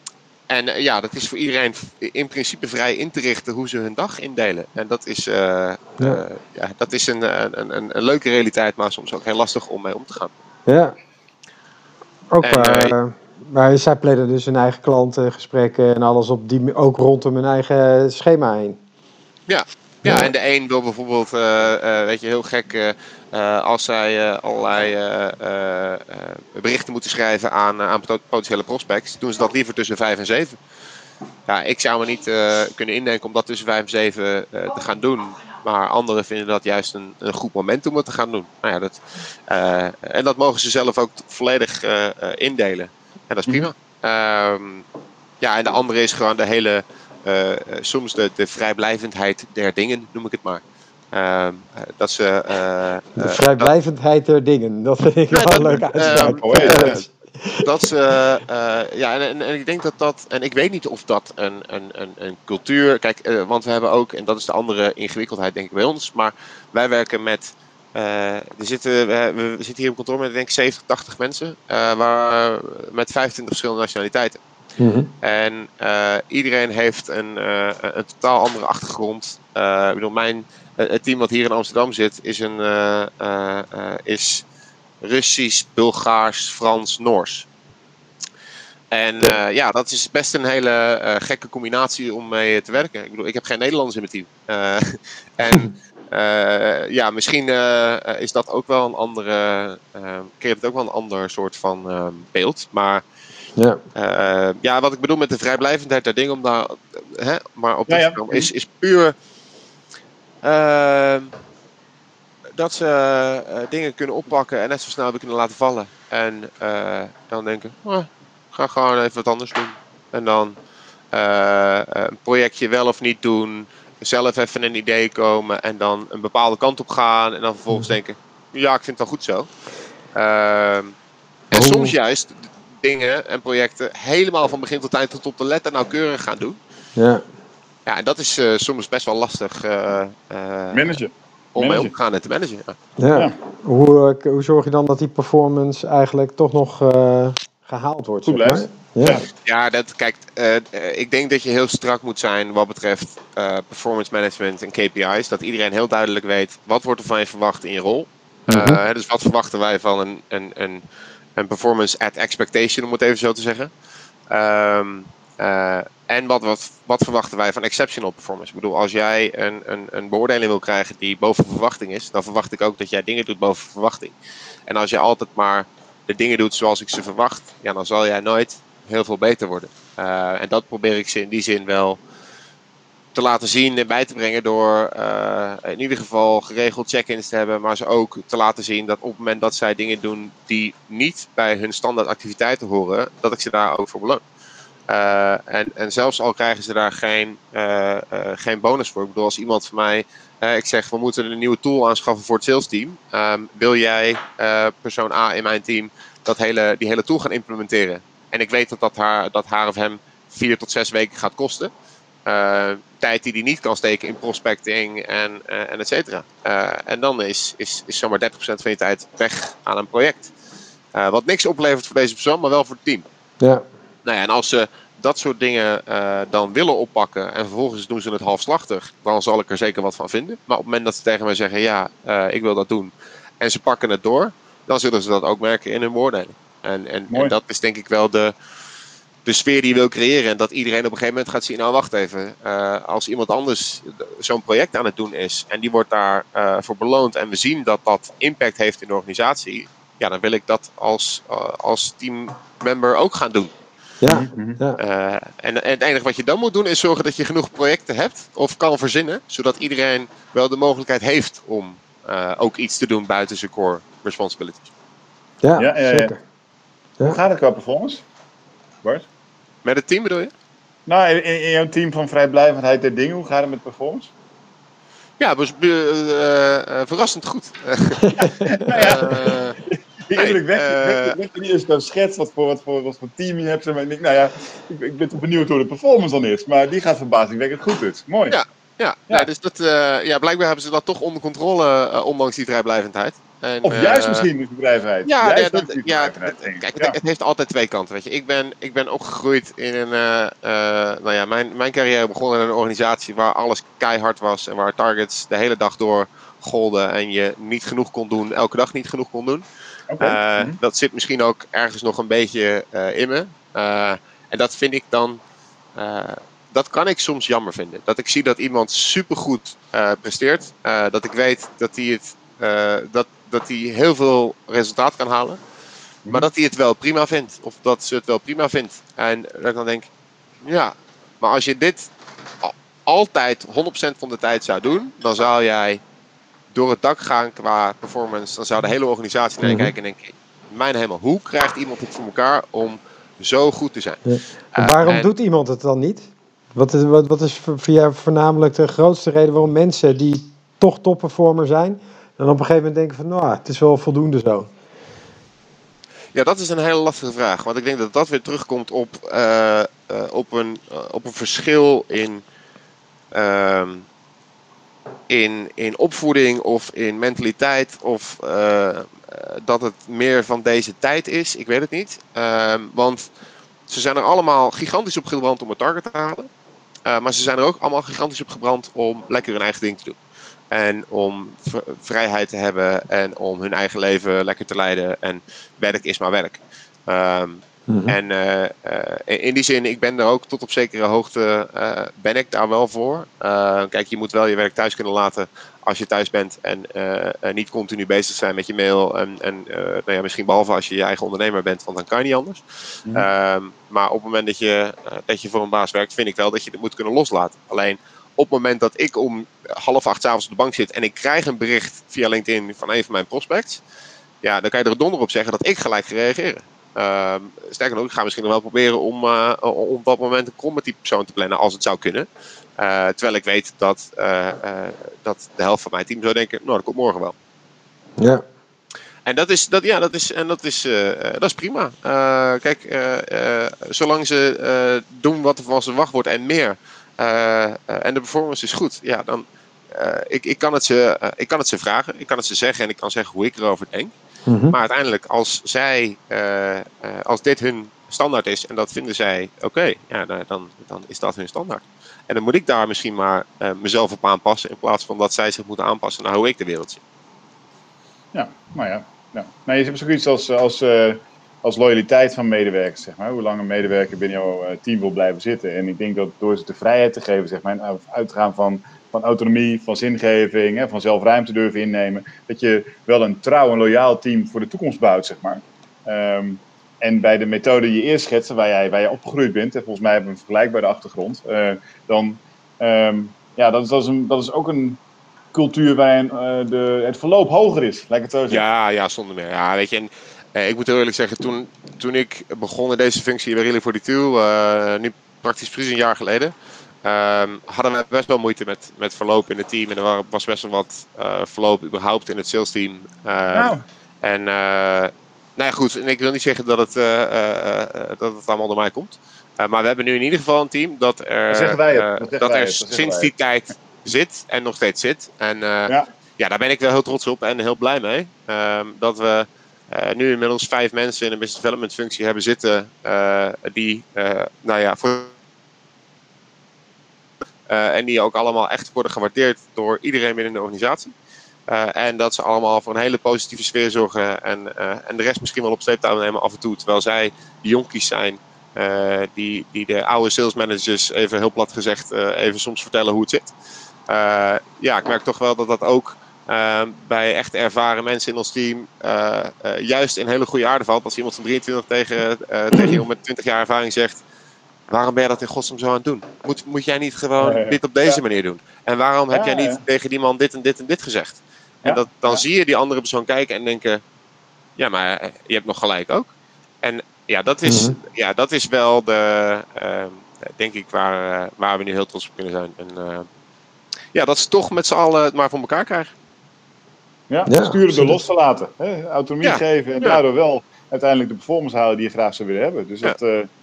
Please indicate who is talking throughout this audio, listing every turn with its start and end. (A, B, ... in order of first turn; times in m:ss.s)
0:00.5-0:10.3 A
0:06.0-0:06.2 B
0:10.7-0:11.0 B
0:12.3-0:18.8 B
0:12.4-0:12.9 A
0:19.5-0:30.6 A
0:20.0-0:20.3 B
0:31.5-0:44.8 A
0:45.4-0:53.7 A
0:53.2-0:57.7 B
0:55.3-0:57.0 A
0:55.6-0:57.0 C
0:57.6-1:14.4 A
1:14.8-1:15.1 B
1:15.2-1:24.4 A
1:25.0-1:27.5 A
1:28.9-1:43.0 A
1:43.6-1:43.8 B
1:44.0-1:49.2 A
1:47.9-1:48.5 C
1:50.4-1:51.3 A
1:52.6-2:00.6 A
2:01.1-2:09.5 A
2:10.2-2:11.0 A
2:11.5-2:16.6 A
2:11.5-2:12.0 B
2:17.0-2:17.2 B
2:17.9-2:21.0 A
2:20.7-2:21.9 C
2:21.6-2:22.8 A
2:23.0-2:29.2 B
2:28.2-2:29.3 C
2:29.4-2:40.8 A
2:38.5-2:38.8 B
2:41.4-2:43.7 A
2:44.3-2:54.2 A
2:54.7-3:02.0 A
3:03.1-3:14.2 A
3:14.9-3:31.7 A
3:32.3-3:40.3 A
3:40.9-3:43.1 A
3:44.0-3:58.3 A
3:57.1-3:57.4 C
3:59.2-4:13.5 A
4:14.0-4:14.8 B
4:14.1-4:14.6 C
4:14.8-4:24.7 A
4:25.4-4:26.2 B
4:25.6-4:26.1 C
4:27.0-4:28.0 C
4:29.6-4:30.3 A
4:30.9-4:34.1 C
4:35.2-4:39.6 A
4:38.1-4:38.6 B
4:38.2-4:48.4 C
4:40.2-4:41.2 A
4:48.3-4:54.3 A
4:53.6-4:57.0 C
4:55.0-5:09.5 A
5:09.9-5:10.6 C
5:10.0-5:15.2 A
5:15.8-5:25.4 A
5:26.1-5:29.9 A
5:30.4-5:31.9 A
5:32.4-5:35.8 A
5:36.5-5:44.0 A
5:39.4-5:39.7 B
5:44.1-5:54.5 B
5:44.5-5:45.1 A
5:56.1-6:02.2 A
6:03.1-6:03.9 A
6:05.1-6:13.0 A
6:13.7-6:16.3 A
6:16.9-6:20.0 A
6:20.5-6:53.6 A
6:27.7-6:28.0 B
6:54.2-7:07.2 A
7:08.0-7:08.2 B
7:09.0-7:23.9 A
7:24.3-7:24.6 B
7:24.5-7:36.8 A
7:38.1-8:04.8 C
8:05.3-8:08.4 C
8:08.3-8:45.1 A
8:23.3-8:23.6 C
8:31.3-8:33.1 C
8:47.5-8:51.0 A
8:51.5-9:03.3 A
9:03.9-9:14.0 A
9:14.7-9:23.8 A
9:17.2-9:18.0 C
9:19.1-9:19.6 C
9:21.6-9:22.2 C
9:24.6-9:33.1 A
9:27.5-9:27.8 B
9:33.9-9:35.9 A
9:37.1-9:43.3 C
9:37.3-9:38.0 B
9:39.2-9:40.0 A